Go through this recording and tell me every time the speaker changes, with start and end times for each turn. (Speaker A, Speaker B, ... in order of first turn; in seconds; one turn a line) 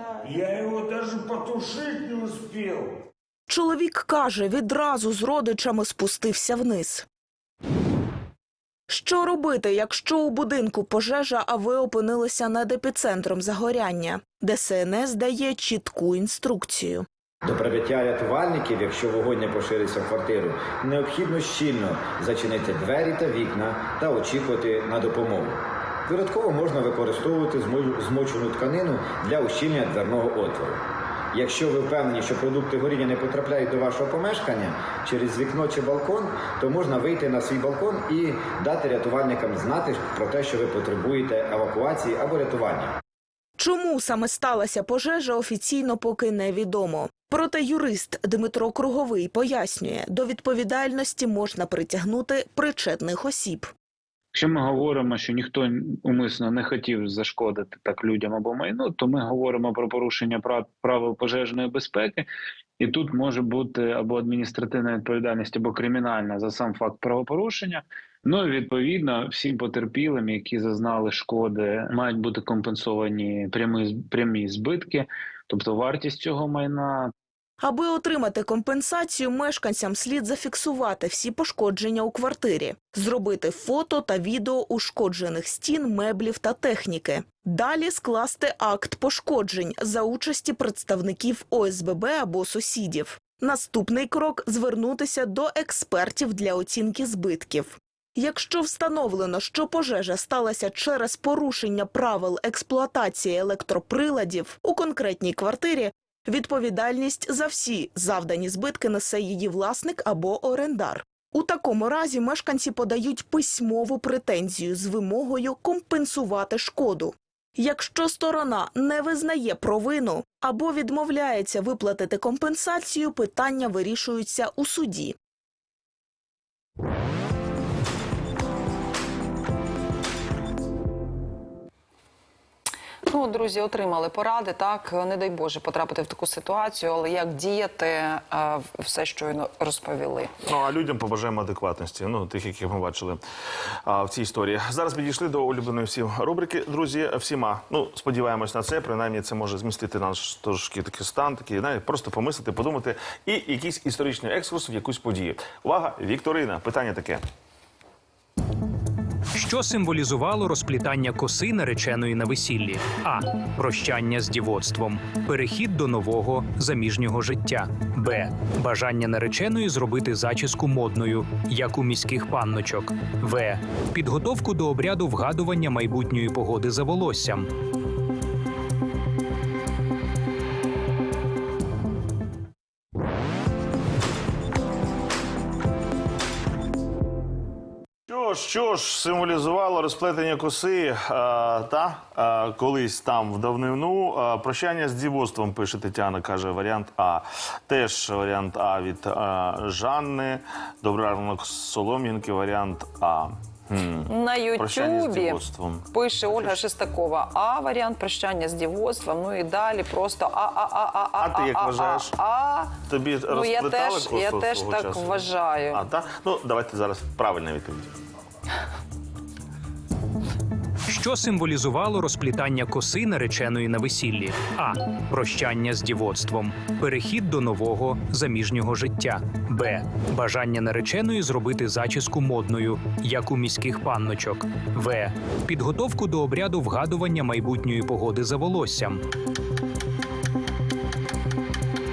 Speaker A: 0.2-2.9
Speaker B: 3.5-7.1
Speaker B: 8.9-17.1
Speaker C: 17.4-25.5
Speaker C: 26.1-30.8
Speaker C: 31.3-42.9
Speaker B: 43.6-53.7
Speaker D: 54.3-62.3
Speaker D: 62.8-77.1
Speaker B: 77.6-125.2
Speaker E: 133.1-140.3
Speaker F: 140.4-143.2
Speaker F: 143.8-157.2
Speaker G: 159.3-177.5
Speaker F: 188.1-206.6
Speaker E: 204.1-205.4
Speaker E: 205.9-212.8
Speaker F: 211.2-212.2
Speaker F: 212.9-217.9
Speaker E: 213.3-215.8
Speaker G: 220.9-239.0